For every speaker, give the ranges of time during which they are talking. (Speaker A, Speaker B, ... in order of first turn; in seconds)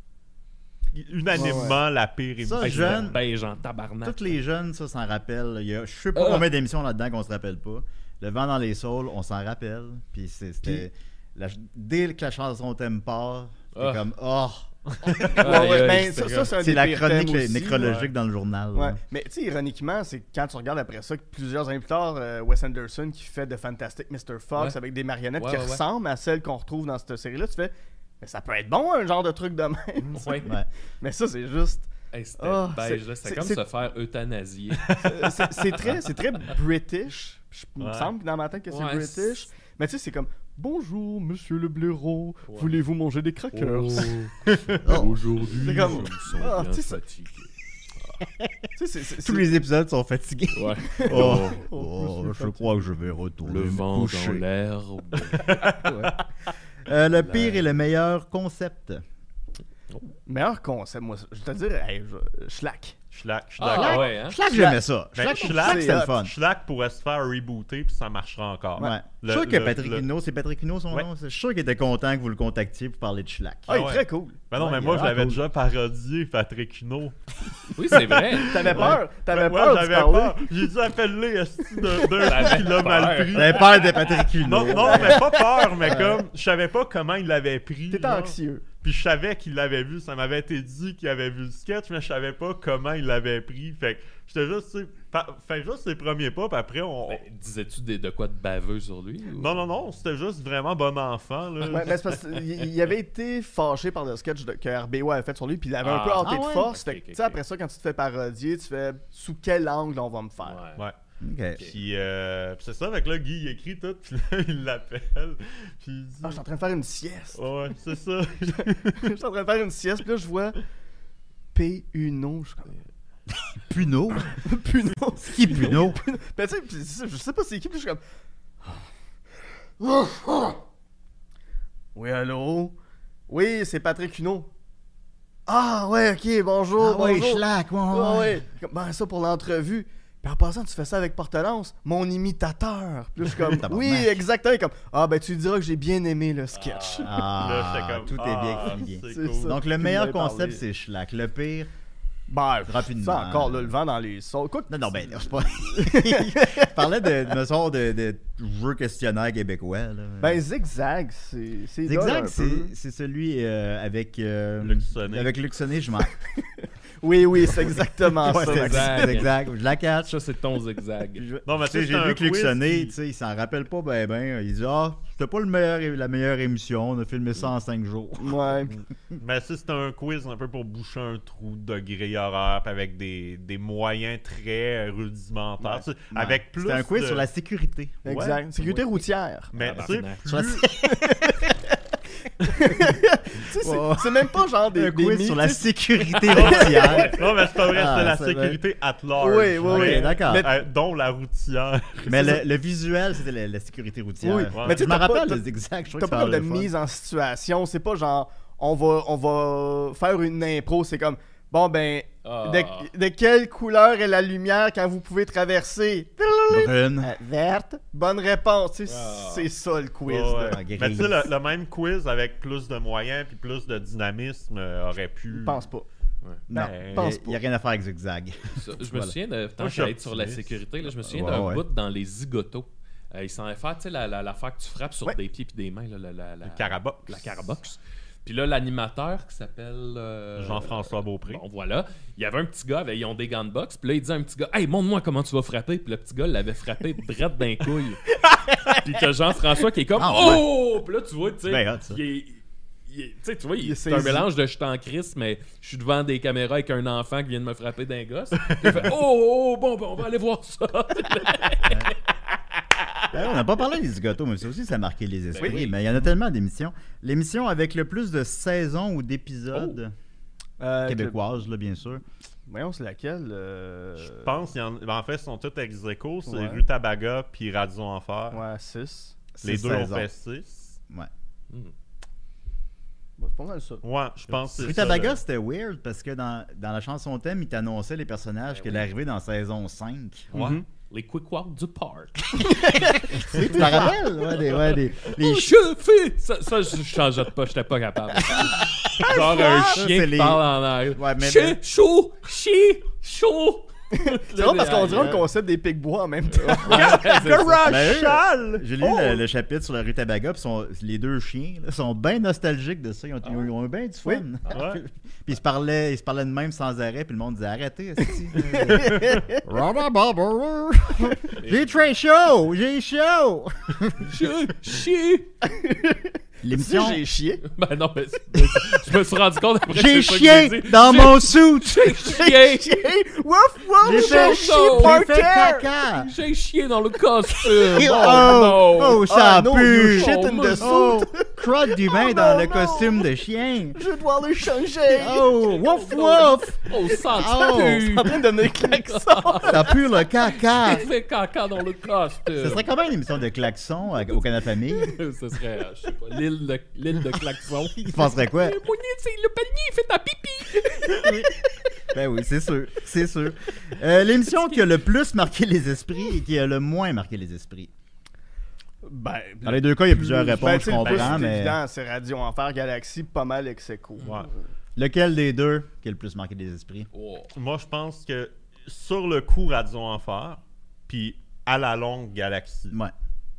Speaker A: 0.9-3.2, 14.9-15.4, 17.8-18.1, 30.0-30.3, 34.8-35.2, 37.8-38.1, 44.5-44.8, 55.4-56.1, 63.1-64.1, 65.1-70.0, 73.7-77.2, 77.7-97.2, 99.4-102.0, 111.6-116.4, 117.3-119.1, 147.2-149.6, 164.6-165.3, 171.4-172.9, 178.8-187.3, 188.1-188.4, 189.5-190.7, 196.3-202.4, 204.5-204.9, 220.1-225.7, 226.5-227.1, 229.6-230.6, 236.4-237.5, 240.4-241.4, 258.5-258.9, 265.3-265.6, 274.0-278.4, 279.4-280.8, 283.8-285.2, 290.3-290.6, 306.7-308.7, 314.5-314.8, 318.6-319.1, 374.0-374.3, 377.3-382.8
Speaker B: 1.3-1.8, 15.3-18.0, 18.7-33.6, 35.0-44.3, 45.5-47.0, 48.8-49.5, 50.9-52.9, 60.3-63.0, 64.5-64.8, 65.3-66.1, 73.7-74.4, 78.5-80.6, 82.0-82.5, 84.7-86.0, 87.9-88.6, 101.7-110.6, 116.2-117.5, 118.5-120.6, 121.5-122.7, 124.3-128.0, 129.8-130.6, 131.9-132.7, 133.3-134.5, 135.5-147.4, 148.6-150.6, 152.3-157.2, 160.2-162.7, 167.0-169.3, 178.2-178.7, 188.1-189.5, 190.3-191.7, 192.4-197.2, 199.2-200.6, 204.2-205.4, 206.0-220.6, 225.3-225.9, 226.9-227.4, 248.2-248.8, 253.6-254.3, 270.6-271.2, 272.5-274.4, 276.3-276.6, 278.3-279.2, 283.2-283.8, 290.3-290.6, 292.5-294.3, 303.9-307.2, 308.8-309.2, 318.7-319.4, 325.4-327.4, 332.6-335.7, 337.7-338.3, 339.1-343.1, 343.7-345.2, 347.8-349.7, 368.8-374.3
Speaker C: 2.4-3.2, 4.0-19.0, 44.8-45.1, 48.2-48.7, 49.2-54.4, 55.8-56.1, 56.8-59.0, 63.7-66.3, 68.8-73.8, 74.5-75.4, 83.3-86.2, 106.2-106.7, 111.2-111.6, 123.7-124.3, 125.2-126.0, 136.8-138.4, 143.4-144.2, 147.0-151.7, 152.7-153.7, 154.7-160.4, 161.8-166.1, 167.6-170.2, 171.2-178.7, 186.1-188.1, 193.6-198.6, 199.7-200.5, 202.1-206.7, 216.5-217.1, 220.5-221.3, 226.5-229.1, 231.1-231.6, 250.0-250.5, 251.5-252.0, 263.1-269.9, 270.8-272.0, 279.3-280.1, 284.6-290.3, 292.5-295.5, 299.0-301.6, 307.6-324.1, 326.4-327.0, 329.7-332.5, 333.8-336.1, 337.7-343.8, 344.9-347.9, 349.4-350.9, 352.3-355.0, 357.8-358.6, 360.9-361.3, 361.9-367.7, 369.4-371.6, 374.8-376.9
Speaker D: 2.6-4.3, 6.1-6.5, 13.7-14.1, 15.4-16.5, 25.4-25.8, 30.1-30.5, 32.1-35.0, 38.7-39.4, 42.5-42.8, 43.5-47.5, 50.5-51.6, 53.4-55.5, 57.2-57.6, 63.6-64.4, 77.7-79.0, 82.2-83.8, 97.1-99.6, 105.8-107.4, 110.4-110.8, 146.5-147.1, 168.2-169.4, 170.0-171.3, 189.6-190.3, 212.2-212.9, 218.9-219.5, 228.6-248.0, 248.8-261.9, 288.5-288.8, 290.4-292.5, 294.5-305.3, 306.3-308.0, 321.4-321.9, 324.0-325.3, 327.4-332.8, 333.9-335.0, 335.9-339.1, 339.7-340.7, 345.1-352.7, 354.7-361.3, 370.7-371.0, 376.9-377.3